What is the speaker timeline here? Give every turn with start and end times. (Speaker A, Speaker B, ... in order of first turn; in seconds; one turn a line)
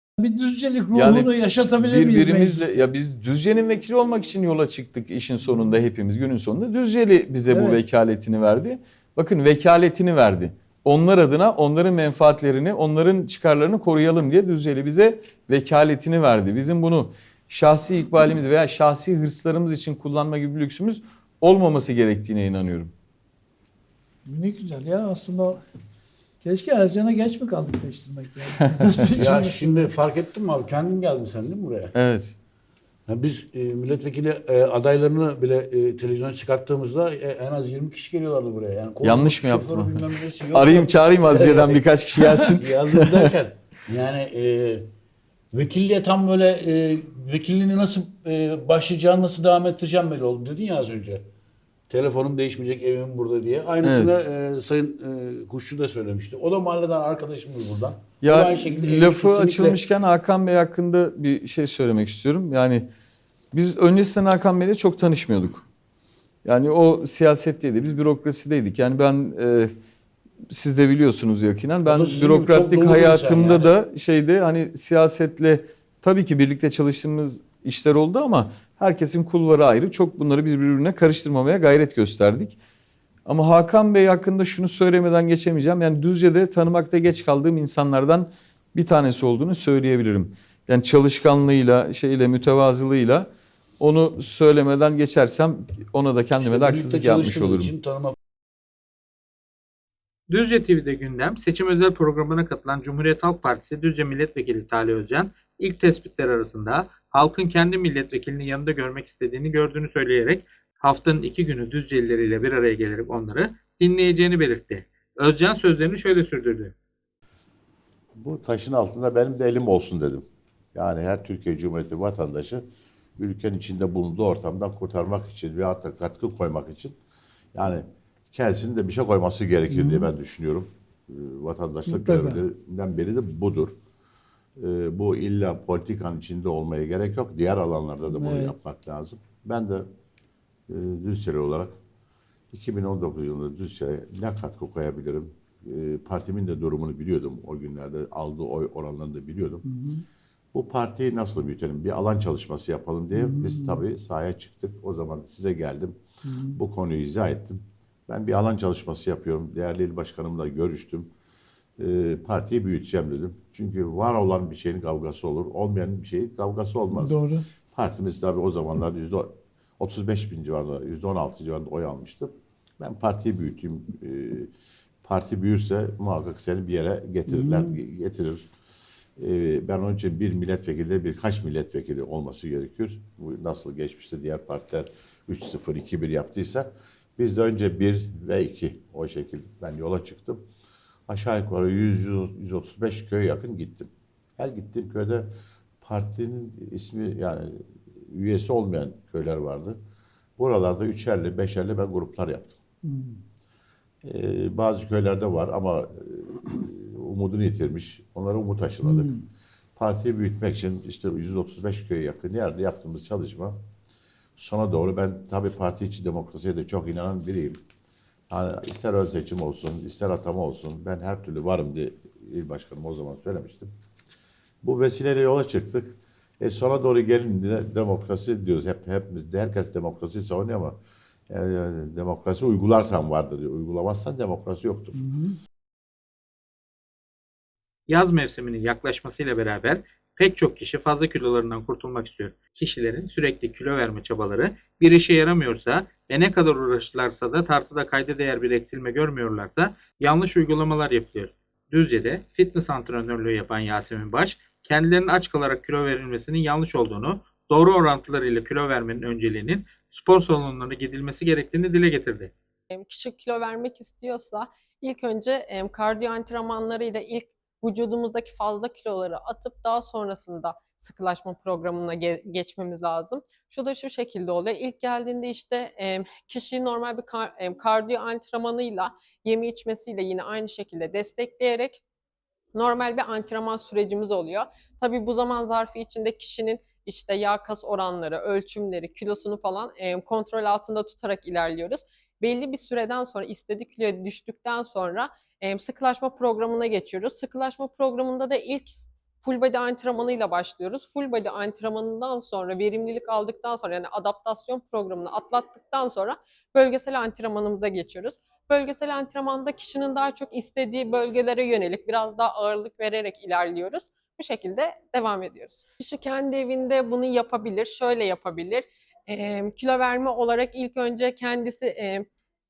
Speaker A: 0.2-2.9
Speaker B: 0.9-22.9
Speaker A: 7.5-7.8
Speaker A: 24.3-25.6
Speaker A: 26.4-29.9
Speaker B: 28.7-29.0
Speaker C: 29.1-31.9
Speaker B: 31.9-32.4
Speaker C: 33.1-44.9
Speaker B: 39.0-43.3
Speaker C: 45.5-51.2
Speaker C: 51.9-59.8
Speaker B: 53.8-54.2
Speaker B: 58.2-62.9
Speaker B: 63.5-65.7
Speaker B: 66.5-69.7
Speaker B: 70.5-82.6
Speaker C: 71.9-73.7
Speaker B: 83.3-93.3
Speaker B: 93.8-97.7
Speaker C: 96.4-98.1
Speaker D: 100.3-116.7
Speaker E: 118.2-127.0
Speaker E: 127.5-133.8
Speaker A: 129.7-130.1
Speaker A: 131.9-132.4
Speaker E: 134.6-139.9
Speaker A: 138.1-138.6
Speaker E: 140.7-141.8
Speaker E: 142.5-149.7
Speaker A: 149.7-150.0
Speaker E: 150.5-156.0
Speaker A: 153.1-153.8
Speaker A: 156.3-156.6
Speaker E: 156.6-161.1
Speaker E: 161.8-174.5
Speaker A: 166.9-167.4
Speaker E: 175.0-178.5
Speaker A: 177.3-177.8
Speaker E: 179.2-190.5
Speaker E: 191.1-195.3
Speaker E: 195.8-199.8
Speaker E: 200.4-202.6
Speaker A: 202.8-203.2
Speaker E: 204.0-209.1
Speaker E: 209.8-213.6
Speaker E: 214.4-217.6
Speaker E: 218.3-223.7
Speaker E: 224.6-230.8
Speaker E: 231.3-235.0
Speaker A: 235.0-235.3
Speaker D: 237.9-262.3
Speaker F: 262.7-281.8
Speaker F: 282.6-322.1